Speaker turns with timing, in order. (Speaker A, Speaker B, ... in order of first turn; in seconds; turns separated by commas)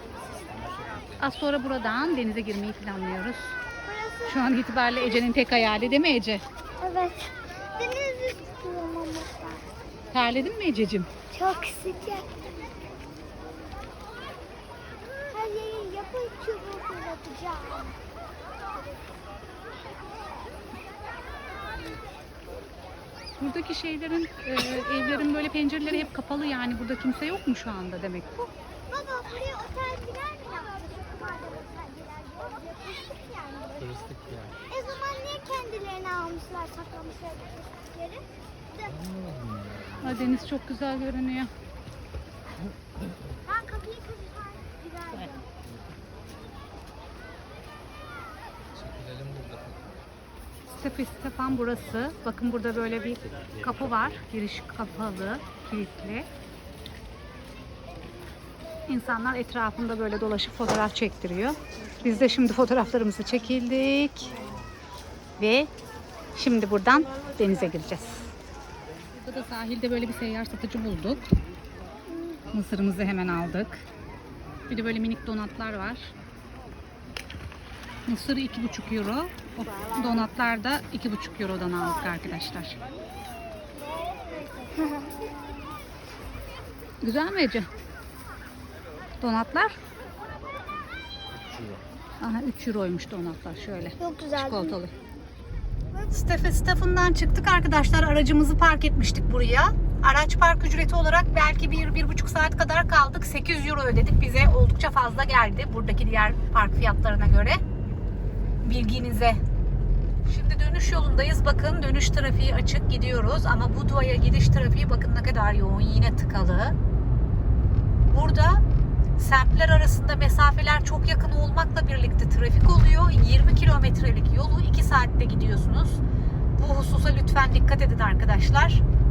Speaker A: 1.2-3.6, Speaker B: 3.8-5.8, Speaker A: 4.2-6.4, Speaker B: 6.8-9.6, Speaker A: 10.1-11.1, Speaker B: 11.3-12.3, Speaker B: 15.3-18.0, Speaker A: 23.4-28.5, Speaker B: 28.9-33.9, Speaker C: 33.8-34.5, Speaker B: 34.7-39.0, Speaker C: 38.9-40.4, Speaker A: 40.0-41.5, Speaker B: 43.5-45.5, Speaker C: 48.7-50.0, Speaker A: 50.7-56.2, Speaker A: 58.9-64.3, Speaker A: 65.4-65.7, Speaker A: 66.3-68.3, Speaker A: 69.1-71.2, Speaker B: 72.1-72.5, Speaker A: 72.5-73.8, Speaker A: 74.7-76.1, Speaker A: 78.1-82.8, Speaker B: 83.9-85.3, Speaker A: 87.0-87.7, Speaker A: 89.2-89.8, Speaker A: 92.2-94.9, Speaker B: 94.0-94.8, Speaker A: 96.1-107.6, Speaker A: 108.6-109.4, Speaker A: 110.2-116.8, Speaker A: 118.1-118.6, Speaker A: 119.2-126.0, Speaker A: 126.6-128.8